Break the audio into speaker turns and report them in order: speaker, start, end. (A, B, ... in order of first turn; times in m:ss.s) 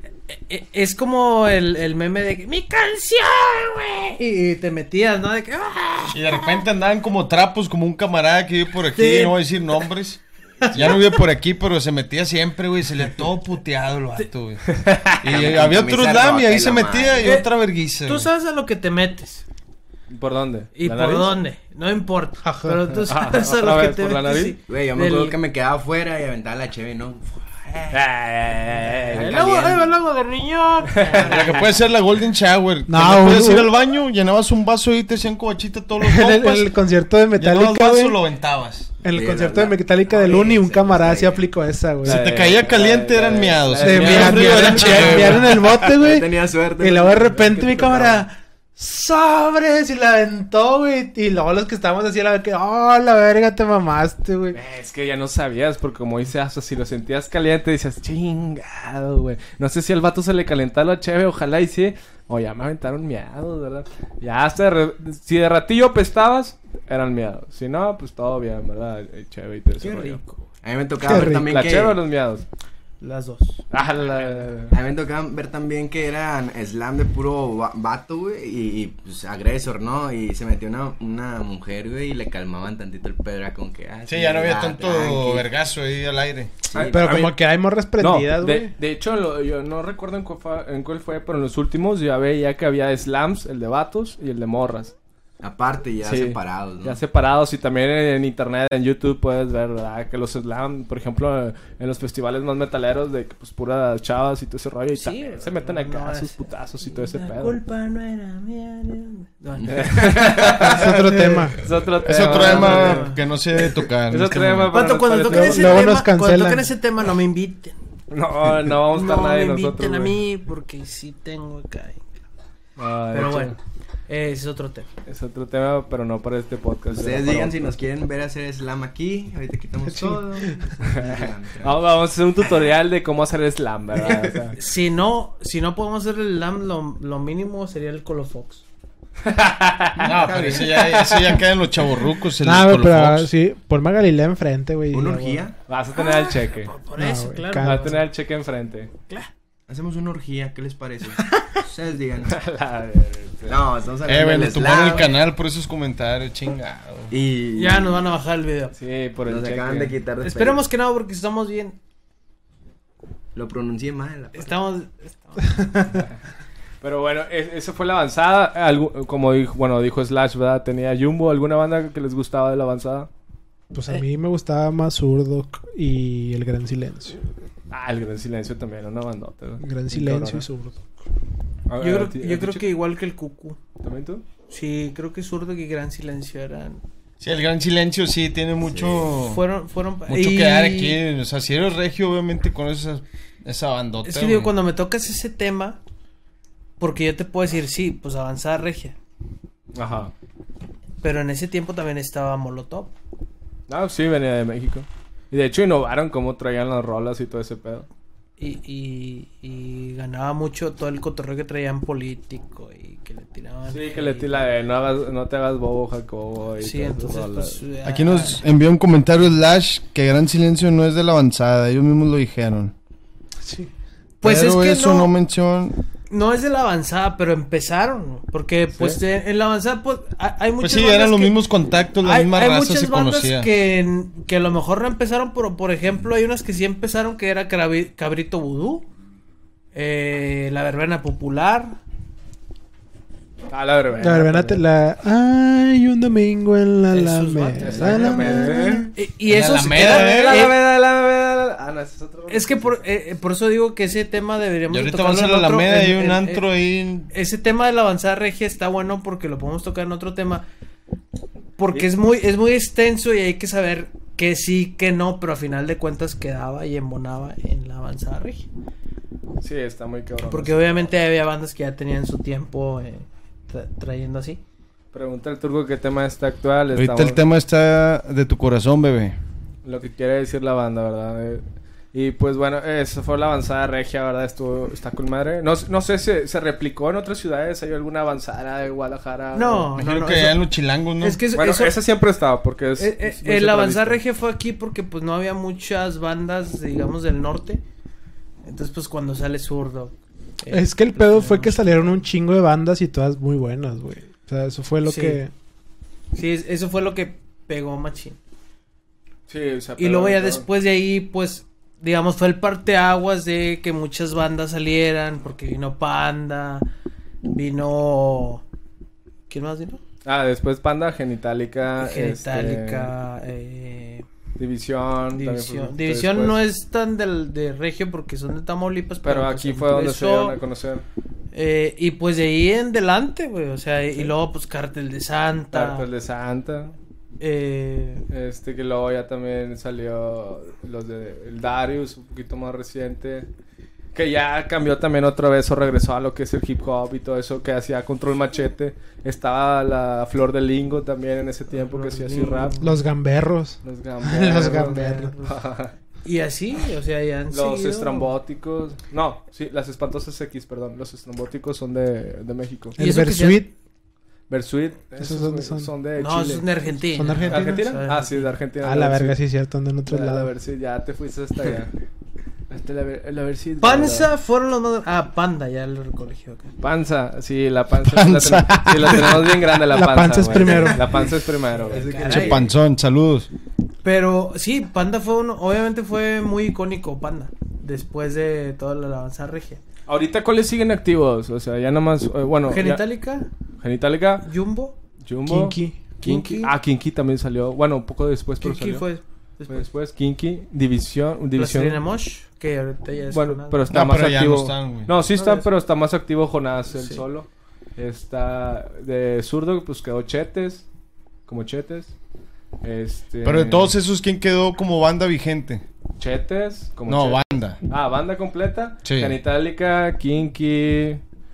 0:00.3-0:06.6 A
0:06.1-0:18.3 B
0:08.9-0:09.4 A
0:10.6-0:11.1 A
0:14.6-0:15.2 C
0:15.2-0:17.4 D
0:17.2-0:17.5 A
0:18.0-0:19.4 A
0:20.1-0:21.3 C
0:20.7-0:25.4 A
0:22.4-0:22.8 E
0:23.0-0:24.6 C
0:24.7-0:28.0 D
0:27.9-0:29.4 C
0:28.7-0:29.9 D
0:29.1-0:31.6 A
0:31.0-0:31.2 C
0:31.2-0:31.6 D
0:31.2-0:36.7 B
0:32.9-0:33.7 E
0:36.0-0:38.2 E
0:37.4-0:39.0 B
0:39.0-0:42.2 E
0:39.0-0:41.4 D
0:42.0-0:45.8 C
0:42.0-0:45.5 B
0:43.8-0:54.6 E
0:44.8-0:48.2 D
0:54.5-1:10.2 C
1:09.8-1:10.4 A
1:10.6-1:12.0 D
1:11.0-1:11.5 E
1:11.1-1:12.4 C
1:13.0-1:13.6 A
1:13.7-1:14.7 C
1:14.7-1:25.5 D
1:24.1-1:26.6 B
1:26.6-1:27.3 D
1:26.7-1:27.3 C
1:26.9-1:28.7 E
1:28.0-1:34.9 C
1:35.4-1:37.0 D
1:36.0-1:47.6 C
1:44.9-1:51.5 A
1:49.7-1:51.0 C
1:50.6-1:51.6 E
1:51.6-1:53.1 C
1:52.0-1:54.8 B
1:52.2-1:53.2 A
1:54.1-1:55.9 C
1:54.7-1:57.7 A
1:55.2-1:56.7 E
1:58.1-2:00.2 C
1:58.9-2:02.0 A
2:02.8-2:03.6 C
2:03.1-2:03.6 A
2:04.1-2:04.9 A
2:05.0-2:07.8 C
2:06.9-2:11.7 D
2:09.9-2:10.6 E
2:10.9-2:14.6 C
2:14.0-2:14.5 D
2:14.6-2:18.6 A
2:19.2-2:20.3 C
2:20.0-2:21.1 D
2:20.0-2:23.3 B
2:22.4-2:25.4 E
2:24.9-2:25.6 D
2:25.7-2:26.7 C
2:25.9-2:28.0 A
2:27.0-2:27.9 E
2:27.6-2:28.9 C
2:29.7-2:32.4 D
2:32.3-2:33.6 C
2:33.5-2:35.1 D
2:34.0-2:37.1 B
2:37.1-2:38.0 D
2:37.5-2:38.7 A
2:38.7-2:40.0 C
2:39.2-2:40.6 D
2:40.2-2:41.8 A
2:43.3-2:44.6 D
2:44.3-2:45.7 A
2:45.6-2:45.8 E
2:46.8-2:53.1 C
2:53.7-2:57.2 E
2:57.7-3:00.4 C
2:59.6-3:00.8 E
3:01.7-3:02.7 C
3:01.8-3:03.6 A
3:03.8-3:04.2 C
3:04.5-3:06.8 A
3:07.2-3:09.4 B
3:09.0-3:11.0 A
3:10.1-3:14.5 B
3:14.0-3:15.8 A
3:16.8-3:19.0 A
3:19.7-3:20.1 C
3:21.0-3:22.9 A
3:23.7-3:27.9 C
3:28.4-3:34.4 A
3:33.7-3:37.6 C
3:36.6-3:38.4 A
3:37.8-3:42.7 B
3:43.4-3:43.7 E
3:44.2-3:45.1 A
3:44.2-3:45.8 B
3:46.1-3:51.4 A
3:50.6-3:53.5 B
3:52.0-3:58.8 A
3:59.7-4:01.8 A
4:03.5-4:04.6 C
4:04.0-4:08.9 E
4:06.9-4:10.6 A
4:07.6-4:08.9 C
4:09.2-4:10.5 B
4:09.7-4:12.8 C
4:12.3-4:16.4 A
4:14.7-4:17.1 B
4:17.1-4:20.4 A
4:21.6-4:28.5 A
4:29.4-4:30.9 C
4:30.2-4:34.4 A
4:34.9-4:37.2 C
4:36.7-4:39.2 B
4:39.6-4:49.7 C
4:49.3-4:50.4 A
4:49.7-4:51.2 B
4:51.0-4:51.8 A
4:51.3-4:54.0 C
4:52.8-4:57.6 A
4:58.4-5:02.0 A
5:00.5-5:05.3 E
5:04.8-5:05.2 A
5:06.1-5:08.2 A
5:09.3-5:10.4 C
5:09.8-5:16.7 A
5:17.3-5:18.4 A
5:19.3-5:19.8 A
5:20.0-5:22.9 C
5:21.8-5:24.0 A
5:24.4-5:26.4 C
5:25.1-5:30.4 A
5:29.0-5:30.8 C
5:31.3-5:35.9 A
5:35.5-5:36.7 C
5:37.2-5:38.0 A
5:38.1-5:43.3 C
5:43.9-5:52.5 C
5:51.5-5:52.8 A
5:52.6-5:55.1 E
5:53.6-5:55.7 C
5:54.9-5:55.3 A
5:56.0-5:58.1 A
5:57.3-6:02.8 C
6:02.8-6:03.5 E
6:02.8-6:03.4 A
6:04.3-6:06.5 C
6:05.0-6:05.7 E
6:06.0-6:08.3 A
6:06.9-6:07.7 E
6:07.2-6:09.2 C
6:08.6-6:10.3 E
6:09.9-6:11.7 C
6:12.5-6:14.1 C
6:13.6-6:16.5 A
6:16.6-6:22.3 C
6:17.9-6:19.3 B
6:19.6-6:20.9 E
6:21.6-6:22.5 A
6:21.7-6:22.5 D
6:22.0-6:23.3 B
6:23.8-6:29.6 A
6:29.9-6:32.8 C
6:32.5-6:33.3 A
6:33.6-6:34.3 C
6:34.2-6:34.8 A
6:35.0-6:38.8 C
6:35.3-6:35.8 E
6:36.0-6:36.5 A
6:38.4-6:39.7 A
6:39.5-6:41.8 C
6:41.3-6:43.6 A
6:43.1-6:50.6 C
6:43.7-6:44.9 B
6:45.1-6:45.5 A
6:46.7-6:47.0 A
6:51.2-6:51.9 C
6:52.6-6:53.7 C
6:53.2-6:55.6 B
6:56.0-7:01.0 C
6:56.9-6:57.6 B
6:58.8-6:59.2 B